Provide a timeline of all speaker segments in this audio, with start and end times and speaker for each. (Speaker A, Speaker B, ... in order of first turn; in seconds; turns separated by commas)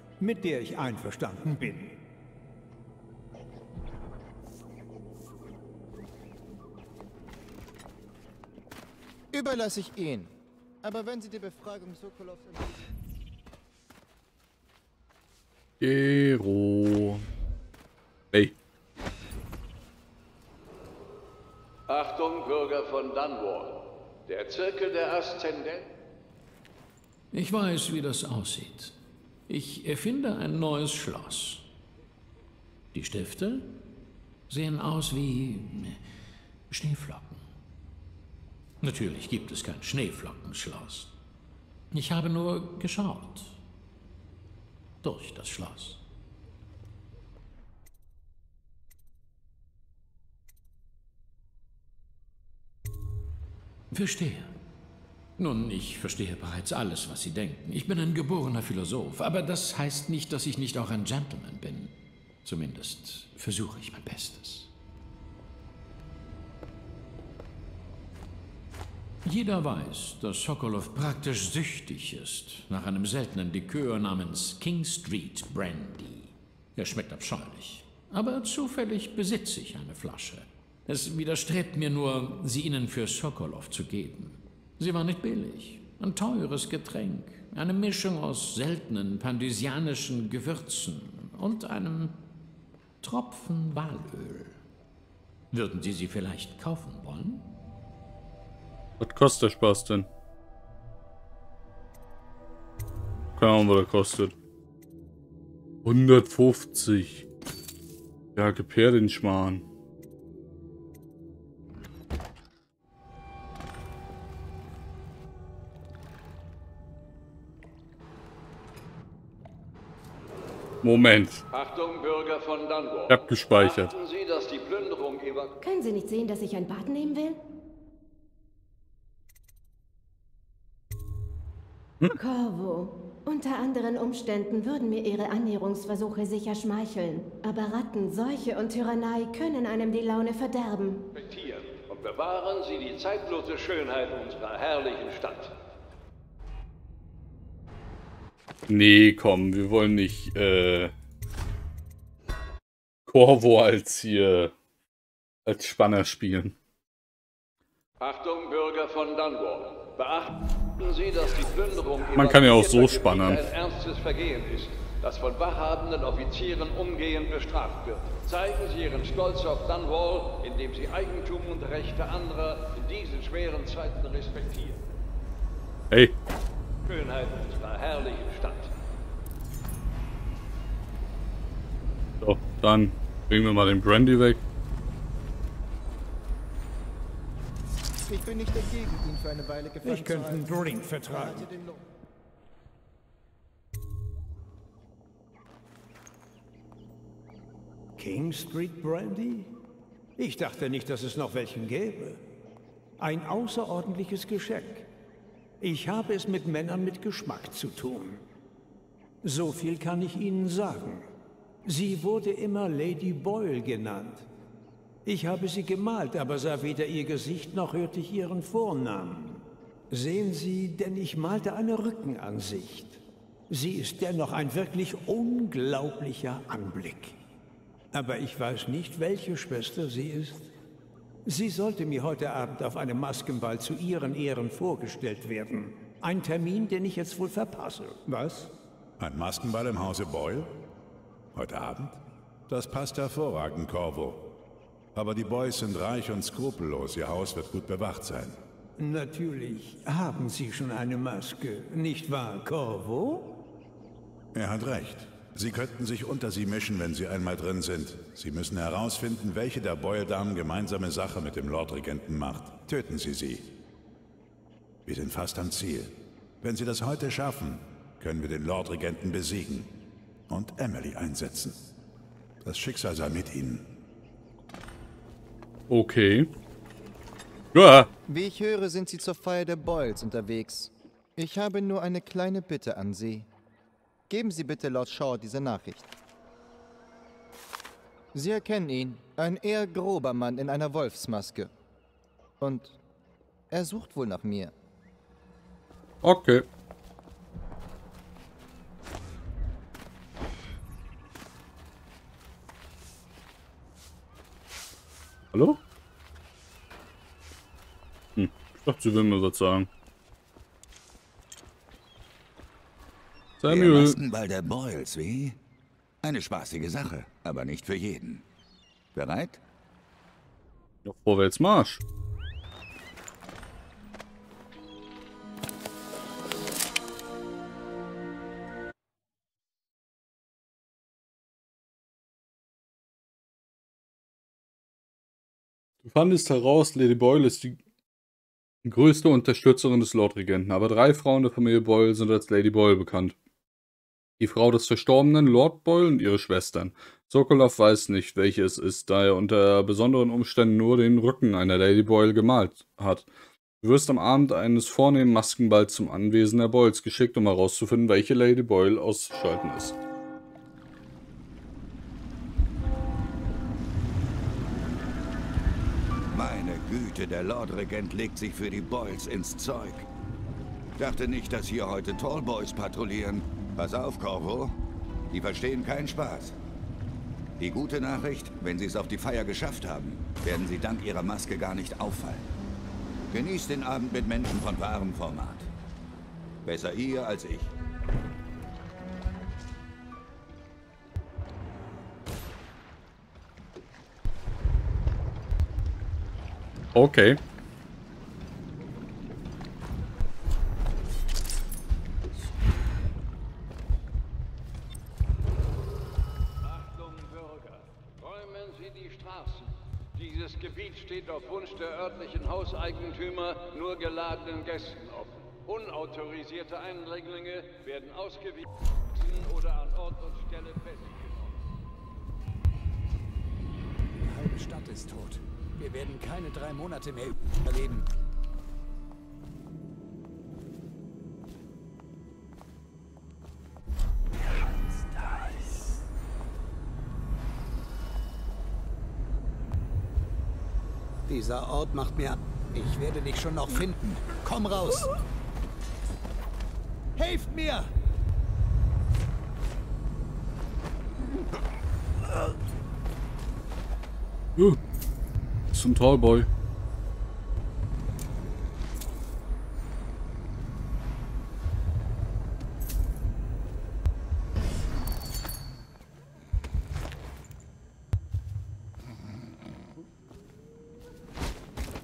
Speaker A: 0.2-1.9, Speaker B: 9.3-12.9, Speaker C: 15.8-17.2, Speaker D: 21.9-25.9, Speaker E: 27.3-28.9, Speaker E: 29.5-31.7, Speaker E: 32.9-33.7, Speaker E: 34.5-36.0, Speaker E: 36.7-37.4, Speaker E: 38.8-41.1, Speaker E: 41.9-43.6, Speaker E: 45.0-46.0, Speaker E: 53.9-54.5, Speaker E: 55.4-61.9, Speaker E: 62.4-64.7, Speaker E: 69.2-92.2, Speaker E: 93.0-94.6, Speaker E: 95.5-97.5, Speaker C: 99.0-100.1, Speaker C: 103.3-104.3, Speaker C: 105.8-107.2, Speaker C: 108.3-109.6, Speaker C: 120.8-121.4, Speaker D: 121.5-125.5, Speaker C: 123.1-123.9, Speaker F: 125.6-127.4, Speaker F: 132.1-141.0, Speaker D: 141.1-145.5, Speaker C: 148.7-150.9, Speaker C: 153.1-154.5, Speaker C: 155.4-156.5, Speaker D: 158.0-174.8, Speaker C: 162.2-163.4, Speaker D: 176.8-178.7, Speaker C: 182.2-184.4, Speaker B: 188.1-191.8, Speaker A: 189.8-191.5, Speaker A: 198.0-199.5, Speaker A: 200.2-202.2, Speaker A: 203.0-204.9, Speaker A: 205.6-208.2, Speaker A: 209.2-211.1, Speaker A: 211.7-214.3, Speaker A: 215.0-227.2, Speaker A: 227.9-230.5, Speaker A: 231.2-238.5, Speaker G: 239.0-240.5, Speaker G: 241.3-244.3, Speaker G: 244.9-248.4, Speaker A: 248.8-253.3, Speaker G: 254.3-263.5, Speaker G: 264.9-269.7, Speaker G: 270.3-271.7, Speaker G: 272.4-273.7, Speaker C: 275.7-276.3, Speaker C: 277.5-277.9, Speaker B: 278.1-283.3, Speaker B: 284.1-285.9, Speaker B: 288.1-291.5, Speaker B: 292.4-292.8, Speaker B: 293.5-294.5, Speaker C: 296.0-296.4, Speaker C: 305.3-305.6, Speaker C: 308.1-309.7, Speaker C: 313.4-314.0, Speaker H: 313.5-315.4, Speaker H: 316.0-318.2, Speaker H: 318.9-319.4, Speaker C: 320.8-321.8, Speaker C: 335.8-337.6, Speaker C: 338.6-343.1, Speaker C: 344.2-353.1, Speaker C: 353.6-359.7, Speaker H: 366.1-369.9, Speaker H: 370.8-374.5, Speaker H: 375.1-376.4, Speaker H: 377.4-382.3, Speaker H: 383.1-385.5, Speaker H: 386.4-387.5, Speaker C: 396.7-397.2, Speaker D: 406.4-421.4, Speaker I: 423.9-427.9, Speaker I: 441.1-444.9, Speaker I: 446.9-447.7, Speaker C: 455.5-456.3